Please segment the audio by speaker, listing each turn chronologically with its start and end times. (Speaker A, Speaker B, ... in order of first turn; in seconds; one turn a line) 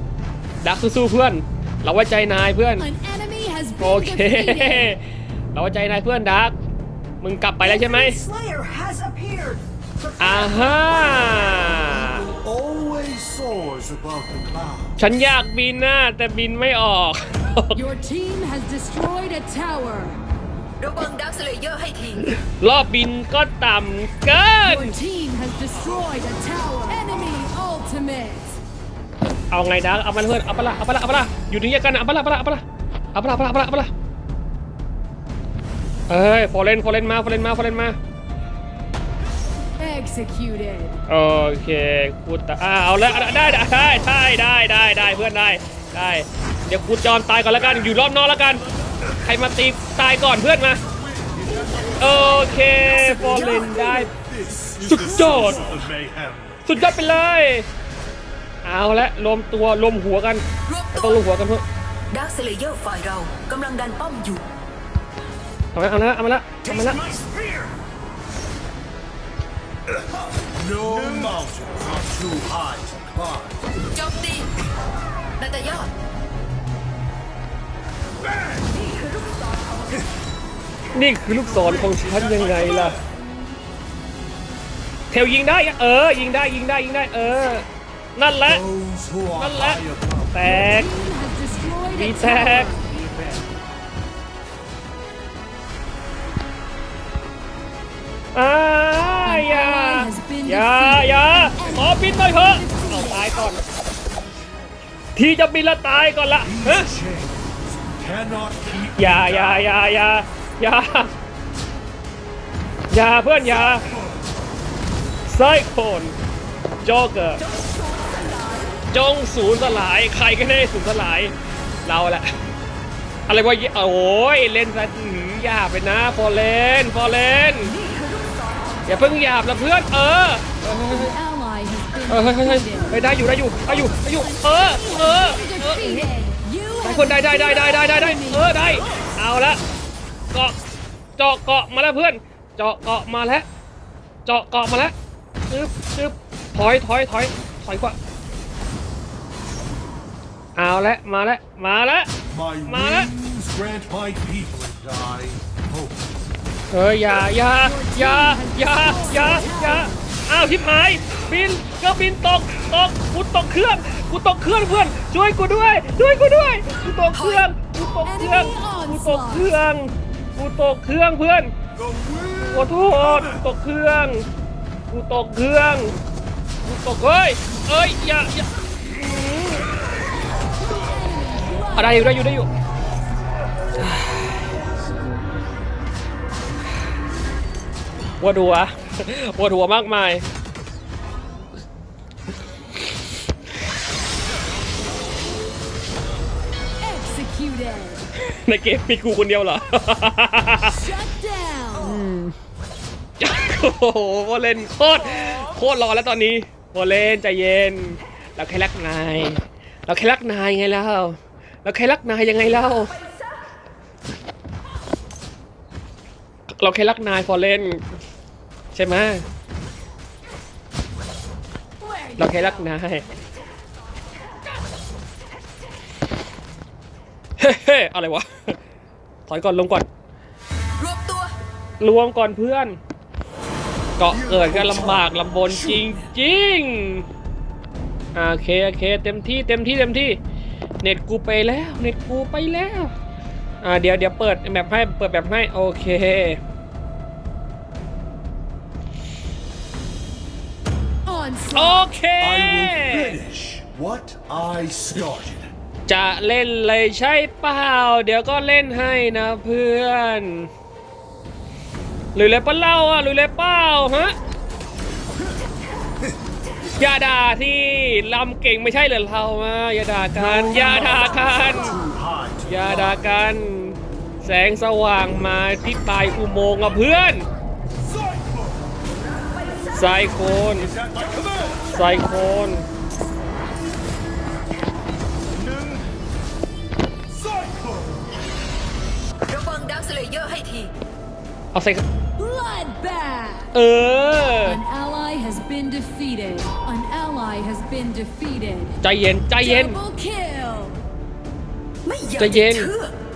Speaker A: 0.6-2.9
Speaker B: 2.8-5.0
Speaker A: 3.8-5.0
Speaker A: 5.5-6.6
Speaker A: 7.2-8.2
Speaker C: 7.6-11.9
Speaker A: 10.2-12.2
Speaker D: 11.8-15.1
Speaker A: 15.0-17.8
Speaker B: 17.7-20.2
Speaker E: 20.8-22.3
Speaker A: 22.4-24.9
Speaker B: 24.6-28.6
Speaker A: 29.5-32.6
Speaker A: 33.1-33.9
Speaker A: 36.1-38.0
Speaker B: 39.8-41.0
Speaker A: 41.1-48.6
Speaker A: 49.1-50.8
Speaker D: 50.8-56.6
Speaker A: 52.0-54.1
Speaker E: 53.2-53.7
Speaker A: 54.8-55.6
Speaker C: 55.4-55.7
Speaker A: 56.6-57.7
Speaker A: 58.6-61.6
Speaker E: 60.6-61.2
Speaker E: 62.1-64.4
Speaker A: 65.7-67.0
Speaker E: 66.6-67.7
Speaker D: 70.5-73.6
Speaker E: 73.9-74.5
Speaker E: 75.4-75.9
Speaker E: 78.6-80.0
Speaker A: 80.9-83.0
Speaker D: 81.2-83.0
Speaker A: 85.1-87.6
Speaker A: 88.2-88.6
Speaker D: 88.4-90.4
Speaker A: 89.4-89.8
Speaker A: 90.3-90.9
Speaker B: 90.4-92.8
Speaker A: 91.9-92.7
Speaker D: 92.9-93.5
Speaker A: 98.3-103.6
Speaker B: 99.2-103.5
Speaker A: 105.2-106.9
Speaker D: 106.4-109.8
Speaker A: 109.0-111.1
Speaker A: 112.9-113.8
Speaker A: 115.3-116.1
Speaker A: 116.8-117.4
Speaker E: 117.4-118.8
Speaker A: 118.9-121.3
Speaker A: 121.8-122.2
Speaker A: 123.3-127.8
Speaker E: 127.8-128.4
Speaker A: 128.9-131.1
Speaker B: 130.8-132.9
Speaker A: 132.1-136.1
Speaker B: 134.1-138.8
Speaker A: 136.8-139.6
Speaker A: 141.2-143.4
Speaker A: 144.2-144.9
Speaker A: 145.5-148.0
Speaker A: 150.6-152.1
Speaker D: 152.3-156.1
Speaker A: 152.7-153.1
Speaker A: 156.7-171.5
Speaker B: 157.4-160.0
Speaker E: 167.1-167.4
Speaker B: 168.0-169.5
Speaker D: 171.7-173.4
Speaker A: 172.4-174.2
Speaker A: 174.9-175.9
Speaker A: 176.6-179.6
Speaker B: 180.5-182.1
Speaker A: 181.7-182.5
Speaker A: 188.2-190.2
Speaker B: 196.8-198.0
Speaker A: 198.3-200.8
Speaker B: 200.6-202.0
Speaker A: 201.8-202.3
Speaker A: 203.2-212.9
Speaker E: 205.1-205.4
Speaker A: 216.6-217.8
Speaker A: 218.7-219.2
Speaker B: 221.8-222.7
Speaker A: 222.2-223.0
Speaker A: 227.4-228.6
Speaker A: 229.3-229.9
Speaker E: 230.8-231.3
Speaker A: 231.8-232.8
Speaker A: 234.0-237.0
Speaker D: 234.1-236.1
Speaker A: 238.1-240.2
Speaker A: 240.8-242.9
Speaker A: 243.6-246.4
Speaker B: 251.0-251.9
Speaker A: 251.5-253.2
Speaker D: 252.2-255.5
Speaker A: 255.9-260.5
Speaker A: 262.1-264.1
Speaker A: 266.8-271.8
Speaker D: 270.1-273.0
Speaker A: 272.5-277.2
Speaker D: 277.8-278.8
Speaker A: 279.7-280.7
Speaker D: 280.4-281.8
Speaker A: 281.7-282.6
Speaker D: 287.1-288.1
Speaker E: 289.3-290.7
Speaker A: 291.5-291.8
Speaker B: 292.2-293.5
Speaker A: 293.5-294.6
Speaker B: 294.4-298.8
Speaker A: 298.8-299.8
Speaker B: 299.4-300.8
Speaker E: 301.8-302.9
Speaker A: 302.2-302.7